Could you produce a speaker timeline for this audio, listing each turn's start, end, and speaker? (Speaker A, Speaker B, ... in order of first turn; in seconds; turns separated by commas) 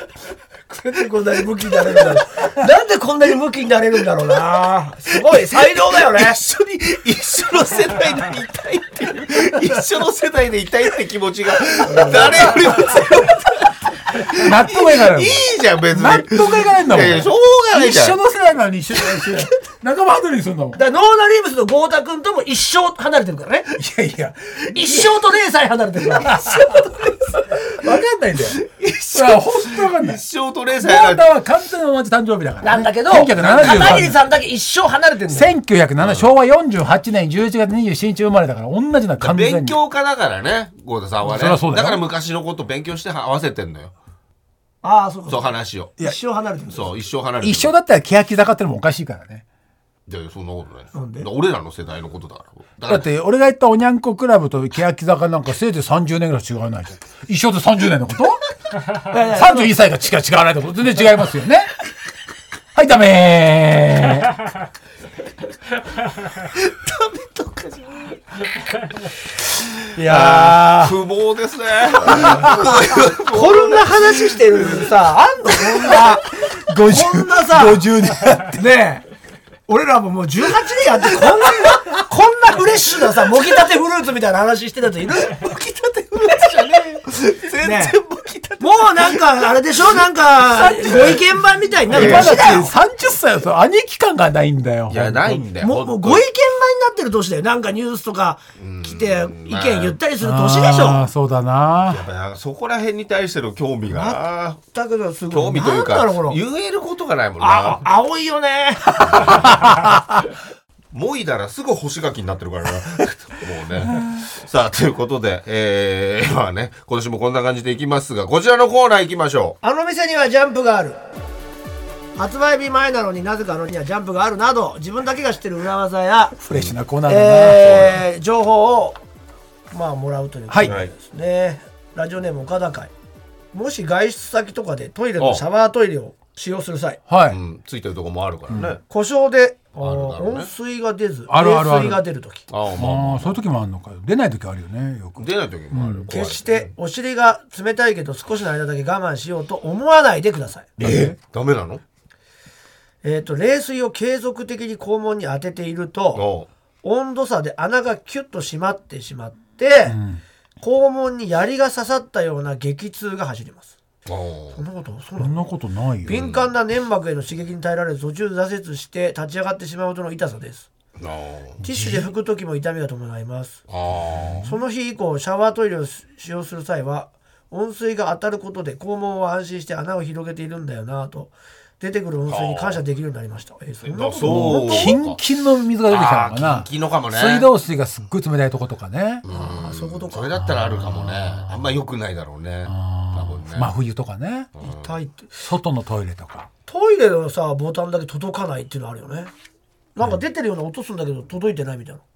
Speaker A: 0.7-6.4, Speaker B: 5.8-18.2, Speaker A: 11.8-12.6, Speaker C: 12.3-12.6, Speaker C: 14.3-20.8, Speaker A: 20.7-23.8, Speaker C: 23.7-25.2, Speaker A: 24.7-27.1, Speaker C: 26.1-30.2, Speaker B: 28.7-31.2, Speaker C: 30.8-34.2, Speaker A: 32.6-35.5, Speaker B: 33.3-34.1, Speaker C: 35.3-39.8, Speaker B: 36.0-36.3, Speaker B: 39.2-43.9, Speaker C: 41.2-42.0, Speaker A: 44.8-47.0, Speaker B: 45.3-46.0, Speaker B: 46.7-47.7, Speaker C: 47.4-49.4, Speaker B: 50.1-53.0, Speaker A: 50.9-51.3, Speaker C: 52.9-58.4, Speaker A: 59.1-59.7, Speaker C: 59.1-61.7, Speaker C: 62.7-64.3, Speaker B: 67.2-67.6, Speaker A: 69.9-71.0, Speaker B: 70.0-74.9, Speaker A: 72.1-72.7, Speaker C: 72.2-72.5, Speaker A: 73.3-77.9, Speaker C: 75.8-78.6, Speaker A: 78.5-79.0, Speaker A: 79.7-86.8, Speaker B: 85.4-90.0, Speaker A: 87.6-88.0, Speaker A: 88.6-92.7, Speaker C: 90.5-91.2, Speaker B: 90.6-91.2, Speaker C: 91.9-95.5, Speaker B: 91.9-92.6, Speaker B: 94.9-96.2, Speaker A: 95.6-101.1, Speaker B: 98.6-100.0, Speaker C: 100.2-102.0, Speaker B: 101.9-104.6, Speaker A: 103.9-106.4, Speaker B: 105.3-107.8, Speaker A: 107.4-109.5, Speaker B: 109.2-109.8, Speaker C: 109.3-110.0, Speaker B: 110.9-119.6, Speaker A: 119.6-121.0, Speaker A: 122.2-126.4, Speaker C: 126.4-127.8, Speaker B: 126.5-126.7, Speaker A: 127.0-129.0, Speaker B: 127.5-128.0, Speaker A: 129.7-132.9, Speaker C: 130.5-130.7, Speaker B: 130.6-130.9, Speaker A: 133.5-137.0, Speaker B: 135.2-135.4, Speaker C: 137.1-137.4, Speaker B: 137.3-138.8, Speaker C: 138.5-138.8, Speaker A: 138.9-142.5, Speaker B: 139.8-140.5, Speaker C: 141.3-142.0, Speaker B: 142.5-143.4, Speaker C: 142.7-146.1, Speaker B: 145.2-146.7, Speaker A: 146.1-150.7, Speaker C: 150.8-151.1, Speaker B: 150.8-151.8, Speaker A: 153.0-156.3, Speaker B: 156.1-156.5, Speaker A: 156.8-160.0, Speaker C: 159.8-160.2, Speaker A: 160.6-163.8, Speaker B: 164.1-164.6, Speaker A: 164.5-165.4, Speaker C: 165.2-166.2, Speaker A: 166.0-170.7, Speaker B: 166.1-166.5, Speaker B: 171.0-171.6, Speaker C: 171.6-172.1, Speaker A: 171.6-173.6, Speaker B: 173.7-174.5, Speaker C: 174.2-174.4, Speaker A: 174.4-184.9, Speaker B: 182.3-182.8, Speaker B: 183.8-185.2, Speaker C: 184.2-189.2, Speaker B: 185.8-187.5, Speaker B: 189.2-193.7, Speaker A: 189.3-190.3, Speaker C: 190.4-191.7, Speaker C: 192.7-194.5, Speaker B: 194.6-194.9, Speaker A: 194.6-195.3, Speaker C: 195.3-196.5, Speaker A: 196.7-199.3, Speaker A: 199.9-202.0